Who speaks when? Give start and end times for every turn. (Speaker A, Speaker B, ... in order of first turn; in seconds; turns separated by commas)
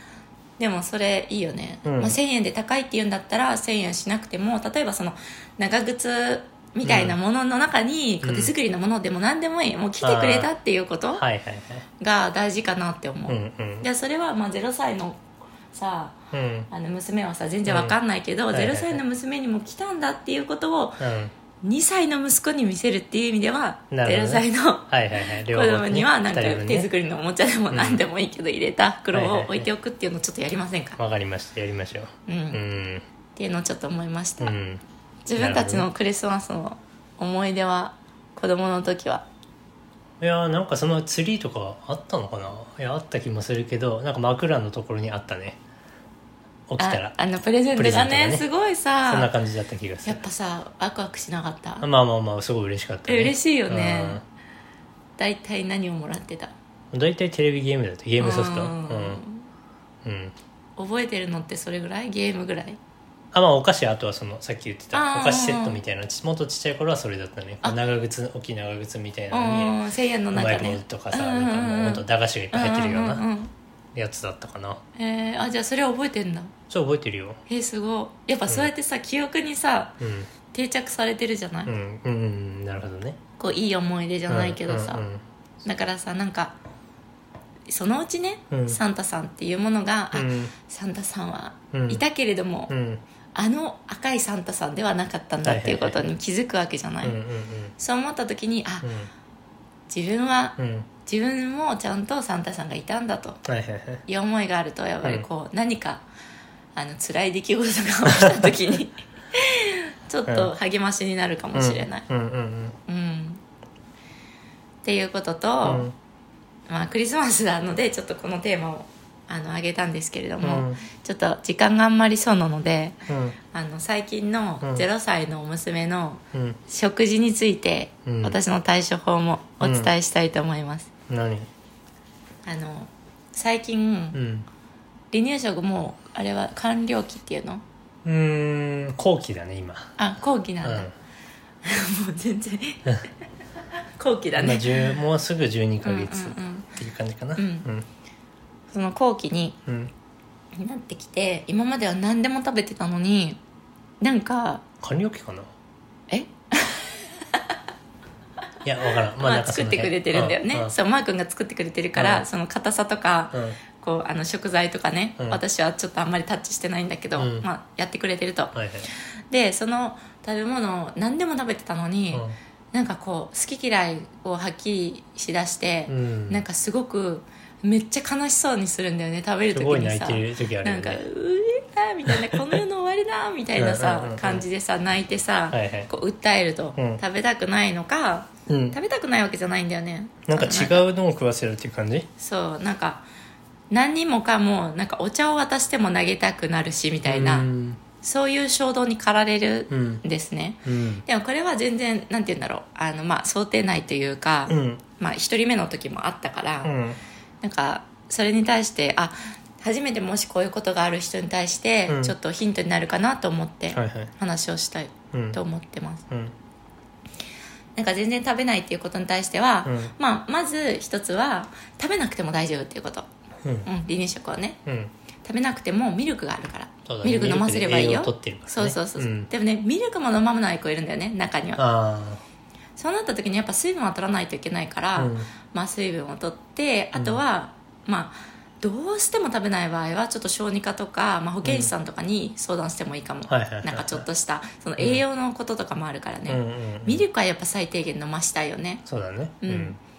Speaker A: 0.6-11.2, Speaker B: 1.9-2.2, Speaker B: 6.8-7.2, Speaker B: 8.2-8.5, Speaker B: 10.0-10.5, Speaker B: 11.1-11.9, Speaker A: 12.0-15.2, Speaker B: 13.3-13.9, Speaker A: 15.7-16.2, Speaker B: 16.3-16.7, Speaker A: 16.7-21.0, Speaker B: 17.7-18.0, Speaker B: 18.5-19.0, Speaker B: 21.0-21.3, Speaker A: 21.6-24.9, Speaker B: 23.9-26.9, Speaker A: 25.5-31.0, Speaker B: 27.7-28.0, Speaker B: 29.1-29.7, Speaker B: 31.0-33.0, Speaker A: 32.3-32.6, Speaker A: 33.4-34.5, Speaker B: 34.4-34.8, Speaker A: 35.3-39.2, Speaker B: 35.4-35.9, Speaker B: 40.2-45.6, Speaker B: 46.7-47.2, Speaker A: 46.8-49.3, Speaker B: 47.7-48.5, Speaker B: 49.1-50.2, Speaker A: 50.0-51.9, Speaker B: 51.8-54.2, Speaker A: 53.1-54.2, Speaker A: 55.2-56.5, Speaker B: 56.9-59.2, Speaker A: 58.2-59.5, Speaker B: 60.0-60.4, Speaker A: 60.8-62.8, Speaker B: 63.3-69.8, Speaker A: 64.9-65.8, Speaker A: 69.3-73.5, Speaker B: 70.3-73.2, Speaker B: 74.0-74.8, Speaker A: 75.0-76.5, Speaker B: 76.7-77.4, Speaker A: 77.5-80.0, Speaker B: 80.0-80.3, Speaker A: 80.5-81.7, Speaker B: 81.7-83.2, Speaker A: 83.4-85.0, Speaker B: 84.3-85.2, Speaker A: 85.7-86.5, Speaker A: 87.7-92.7, Speaker B: 88.5-88.8, Speaker B: 90.1-90.5, Speaker B: 91.7-92.0, Speaker B: 92.7-93.0, Speaker A: 93.3-97.2, Speaker B: 95.4-96.1, Speaker B: 97.0-97.7, Speaker A: 97.8-98.9, Speaker B: 98.8-99.1, Speaker A: 99.9-103.4, Speaker B: 100.6-100.9, Speaker B: 103.5-104.0, Speaker A: 104.1-106.0, Speaker A: 106.8-112.0, Speaker B: 108.1-108.5, Speaker B: 110.3-110.5, Speaker B: 111.5-112.8, Speaker A: 112.9-113.4, Speaker A: 114.8-115.9, Speaker B: 115.6-115.9, Speaker A: 116.7-123.0, Speaker B: 120.4-120.8, Speaker B: 123.1-123.4, Speaker A: 123.5-130.9, Speaker B: 126.3-126.6, Speaker B: 128.1-128.4, Speaker B: 129.6-129.9, Speaker B: 131.1-131.5, Speaker A: 132.5-134.2, Speaker B: 134.1-134.5, Speaker A: 135.1-137.6, Speaker B: 138.1-139.9, Speaker A: 140.0-140.9, Speaker B: 140.6-140.9, Speaker A: 141.6-143.0, Speaker A: 144.0-145.0, Speaker B: 144.4-147.9, Speaker A: 145.8-146.7, Speaker A: 147.4-147.7, Speaker A: 148.7-149.6, Speaker B: 149.7-149.9, Speaker A: 150.6-153.4, Speaker A: 154.0-154.6, Speaker B: 154.8-155.5, Speaker A: 156.1-157.6, Speaker B: 158.6-160.8, Speaker A: 159.1-190.8, Speaker B: 162.0-162.3, Speaker B: 163.3-163.6, Speaker B: 167.2-167.5, Speaker B: 168.5-168.9, Speaker B: 175.9-176.4, Speaker B: 179.5-181.1, Speaker B: 182.1-182.6, Speaker B: 183.6-184.4, Speaker B: 185.5-185.9, Speaker B: 186.8-187.0, Speaker B: 188.5-188.8, Speaker B: 190.3-192.1, Speaker A: 192.2-193.1, Speaker A: 193.7-197.5, Speaker B: 197.1-197.8, Speaker A: 198.0-206.7, Speaker B: 199.7-200.0, Speaker B: 200.7-201.0, Speaker B: 204.5-204.8, Speaker B: 206.6-207.0, Speaker A: 207.4-216.1, Speaker B: 211.9-212.2, Speaker B: 213.7-214.1, Speaker B: 215.1-215.4, Speaker A: 217.8-223.1, Speaker B: 219.7-219.9, Speaker A: 223.7-224.6, Speaker B: 224.7-224.9, Speaker A: 225.2-231.6, Speaker B: 226.9-229.3, Speaker B: 231.6-232.2, Speaker A: 232.8-248.8, Speaker B: 235.0-235.3, Speaker B: 236.9-237.2, Speaker B: 241.4-241.7, Speaker B: 243.3-244.0, Speaker B: 244.8-245.0, Speaker B: 246.3-247.0, Speaker B: 248.9-249.8, Speaker A: 249.4-249.8